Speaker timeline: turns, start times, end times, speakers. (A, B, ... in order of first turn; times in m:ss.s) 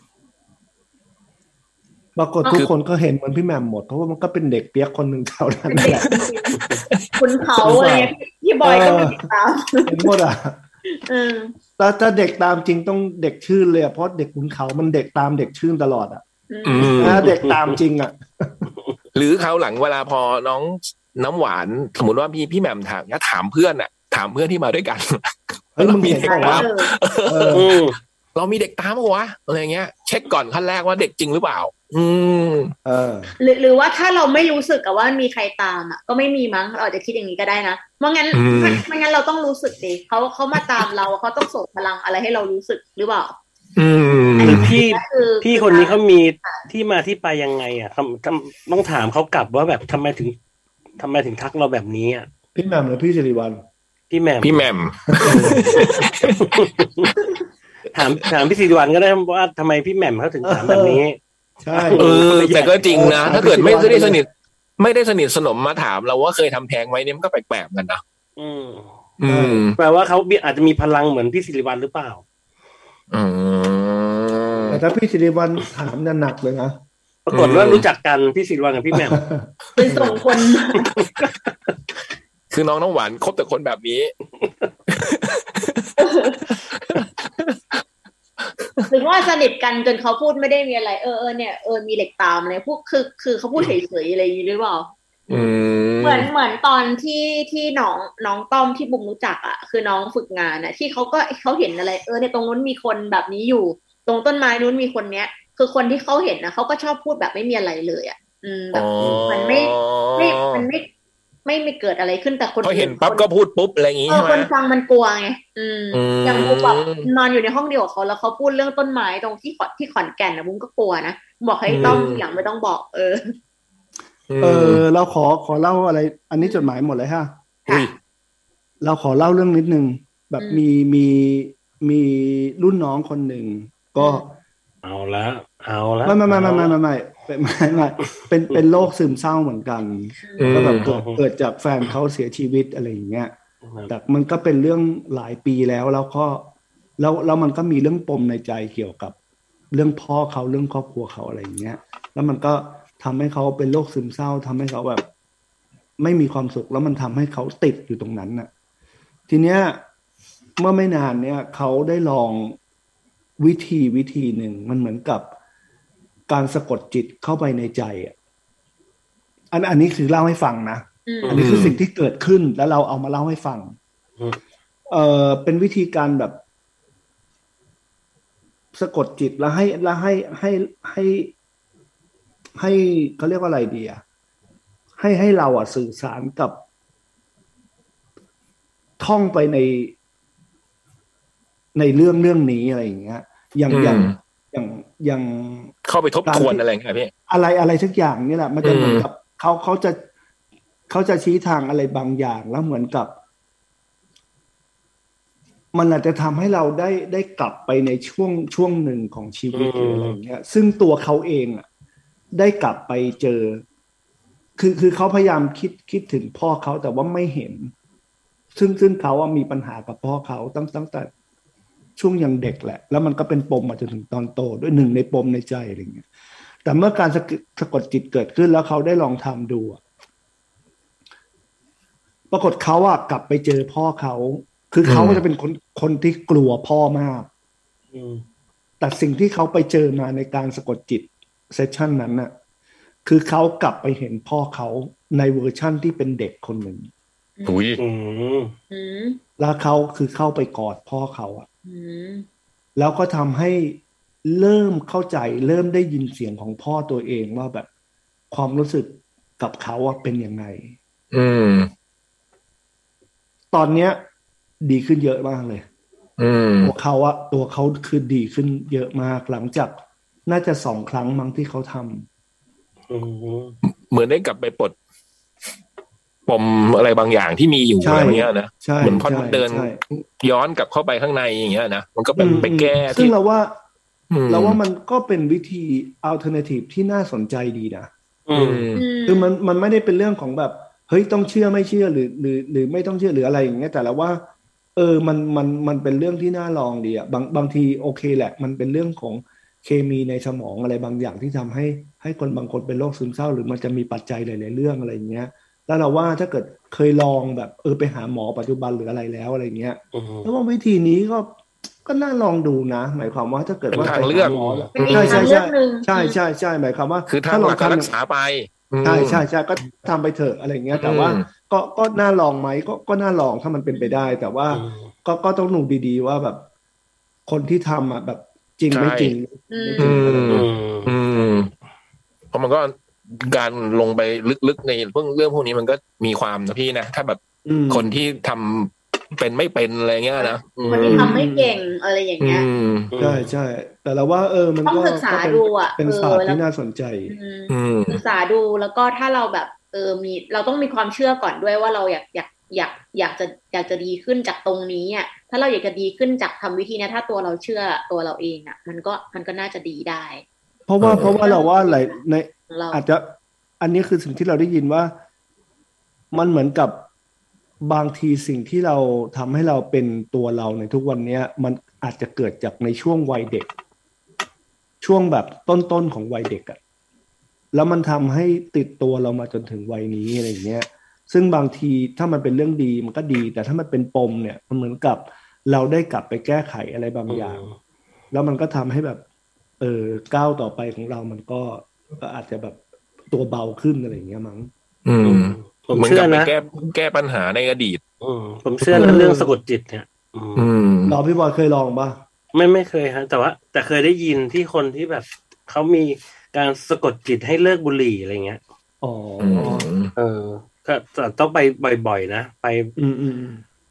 0:02.2-0:06.2 A
0:05.7-0:10.1 B
0:05.8-0:06.3 C
0:07.6-0:09.2 A
0:09.8-0:10.6 A
0:10.9-0:11.5 B
0:11.8-0:16.2 A
0:16.5-0:17.2 B
0:16.6-0:17.3 C
0:16.8-0:18.7 A
0:17.4-0:17.8 D
0:19.1-0:27.7 C
0:25.8-0:26.7 A
0:26.2-0:26.9 B
0:27.2-0:27.7 A
0:27.5-0:28.0 D
0:28.3-0:32.7 C
0:32.8-0:33.3 A
0:33.4-0:43.4 B
0:38.3-0:38.8 C
0:43.8-0:44.7 C
0:44.4-0:46.6 B
0:44.4-0:50.4 D
0:51.0-0:52.3 D
0:52.5-0:53.6 A
0:54.1-0:54.6 D
0:54.4-0:56.6 C
0:55.1-0:55.9 A
0:55.7-0:57.1 D
0:57.9-1:01.2 D
1:00.4-1:01.0 A
1:01.6-1:02.2 A
1:01.9-1:03.4 D
1:01.9-1:04.3 C
1:02.9-1:04.2 A
1:04.8-1:08.0 C
1:08.4-1:09.0 D
1:09.2-1:09.8 C
1:09.2-1:09.7 A
1:09.8-1:12.2 D
1:13.1-1:14.8 C
1:14.6-1:16.8 A
1:17.3-1:19.2 D
1:17.3-1:17.8 C
1:18.9-1:20.2 A
1:19.8-1:20.9 B
1:20.8-1:21.3 D
1:22.5-1:24.1 C
1:24.9-1:25.9 C
1:26.0-1:26.4 B
1:26.5-1:27.6 C
1:28.9-1:50.9 B
1:35.3-1:36.3 C
1:48.7-1:50.6 C
1:51.4-1:53.3 B
1:52.6-1:54.5 C
1:54.1-2:03.3 B
1:55.9-1:57.1 C
2:01.7-2:02.2 C
2:04.3-2:04.8 C
2:04.4-2:07.4 A
2:06.4-2:06.7 B
2:07.6-2:07.9 B
2:08.8-2:14.4 A
2:10.4-2:10.6 B
2:14.0-2:14.2 B
2:14.8-2:16.7 D
2:16.0-2:23.3 A
2:20.2-2:20.6 B
2:20.4-2:20.9 C
2:20.8-2:21.2 D
2:23.9-2:29.2 A
2:29.7-2:35.0 A
2:36.0-2:38.5 A
2:39.3-2:39.8 A
2:40.6-2:42.6 A
2:43.4-2:45.3 A
2:46.3-2:48.1 A
2:49.5-2:53.8 A
2:51.1-2:51.6 B
2:51.3-2:51.8 C
2:54.9-2:56.4 A
2:58.7-3:01.3 A
3:02.6-3:04.0 A
3:05.0-3:06.6 A
3:09.0-3:10.0 A
3:11.7-3:15.7 A
3:13.7-3:14.2 C
3:15.8-3:17.1 C
3:16.2-3:16.6 A
3:17.3-3:20.0 A
3:18.6-3:19.0 C
3:20.9-3:23.2 A
3:25.7-3:31.6 A
3:29.5-3:30.2 D
3:32.3-3:33.6 A
3:34.6-3:37.7 A
3:38.5-3:41.1 A
3:42.0-3:46.0 A
3:46.6-3:49.8 A
3:52.3-3:57.3 A
3:54.8-3:55.2 C
3:57.9-3:58.2 D
3:58.8-4:02.3 A
4:03.0-4:06.9 A
4:07.4-4:07.6 B
4:07.4-4:07.8 C
4:07.8-4:08.5 D
4:08.7-4:09.2 B
4:09.4-4:11.4 A
4:11.6-4:12.3 B
4:12.8-4:17.7 A
4:18.3-4:20.8 A
4:21.1-4:21.7 C
4:23.5-4:24.0 A
4:24.6-4:25.6 A
4:26.2-4:26.7 C
4:26.6-4:32.1 A
4:32.9-4:33.6 D
4:33.9-4:34.8 C
4:36.3-4:43.1 C
4:37.8-4:39.8 A
4:42.2-4:43.6 A
4:44.1-4:44.6 C
4:44.3-4:47.9 A
4:48.3-4:48.6 D
4:48.3-4:48.8 C
4:48.7-4:49.3 B
4:49.0-4:54.2 A
4:54.8-5:17.9 A
5:09.9-5:10.3 D
5:13.7-5:14.7 D
5:13.7-5:15.3 C
5:14.7-5:16.2 B
5:17.1-5:19.2 C
5:18.8-5:26.4 A
5:20.7-5:21.3 C
5:23.7-5:24.1 B
5:24.5-5:24.8 D
5:27.3-5:30.5 A
5:28.7-5:29.2 C
5:29.5-5:30.0 B
5:29.8-5:31.5 C
5:30.3-5:31.0 D
5:32.3-5:41.1 C
5:37.4-5:37.9 A
5:40.2-5:42.4 B
5:40.9-5:41.6 A
5:42.2-5:42.9 C
5:42.9-5:43.3 D
5:43.0-5:47.1 A
5:44.6-5:46.4 B
5:47.1-6:00.2 B
5:47.5-5:48.0 C
6:00.7-6:04.9 A
6:00.8-6:01.2 C
6:01.2-6:01.9 B
6:02.5-6:02.8 B
6:06.1-6:06.9 A
6:07.6-6:13.5 A
6:14.8-6:16.6 A
6:17.5-6:27.4 A
6:27.1-6:27.5 D
6:28.1-6:29.0 A
6:29.6-6:34.5 A
6:34.8-6:37.8 C
6:35.0-6:36.3 D
6:38.0-6:40.5 D
6:38.6-6:39.0 C
6:38.7-6:39.3 A
6:40.4-6:41.0 C
6:40.8-6:42.0 A
6:42.3-6:48.4 D
6:48.8-6:49.7 A
6:49.2-6:49.9 C
6:49.4-6:52.7 D
6:52.8-6:53.4 A